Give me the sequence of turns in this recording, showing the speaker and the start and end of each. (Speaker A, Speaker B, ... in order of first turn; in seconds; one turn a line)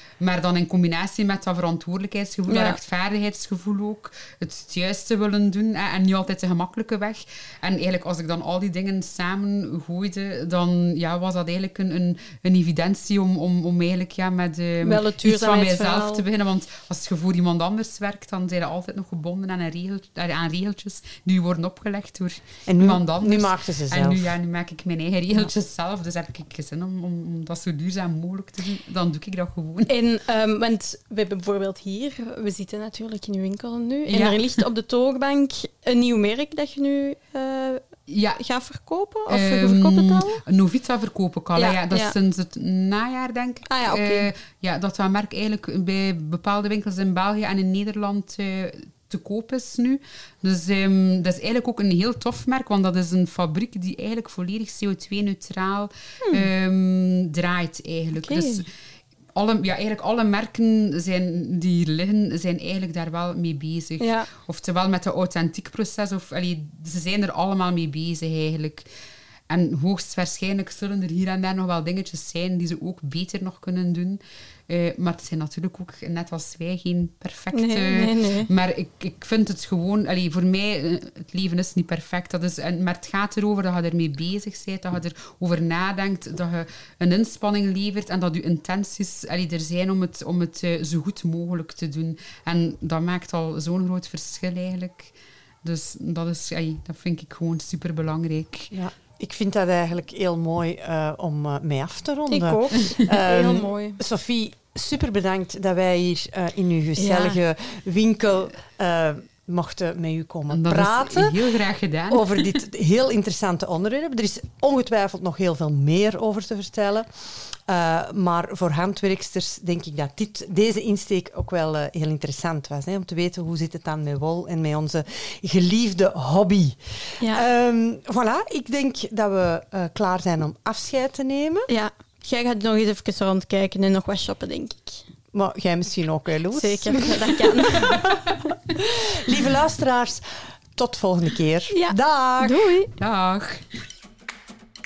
Speaker A: 0.2-29.9
Speaker B: 2.5-2.8
Speaker B: 14.8-16.2
Speaker C: 22.6-24.3
Speaker B: 29.9-37.8
Speaker A: 34.1-34.6
Speaker A: 38.1-38.4
Speaker B: 38.4-40.4
Speaker A: 39.3-58.6
Speaker B: 41.5-42.1
Speaker B: 43.7-44.3
Speaker B: 58.1-58.6
Speaker A: 59.4-68.9
Speaker B: 64.0-64.3
Speaker A: 69.5-95.1
Speaker B: 77.5-78.5
Speaker A: 95.6-98.7
Speaker C: 98.7-111.4
Speaker B: 102.3-104.0
Speaker B: 107.0-107.4
Speaker A: 110.5-112.4
Speaker C: 112.1-131.7
Speaker B: 127.2-127.4
Speaker B: 131.7-135.0
Speaker C: 135.3-138.2
Speaker B: 136.5-138.1
Speaker C: 138.8-140.2
Speaker C: 140.7-142.7
Speaker B: 141.7-142.9
Speaker A: 143.0-143.7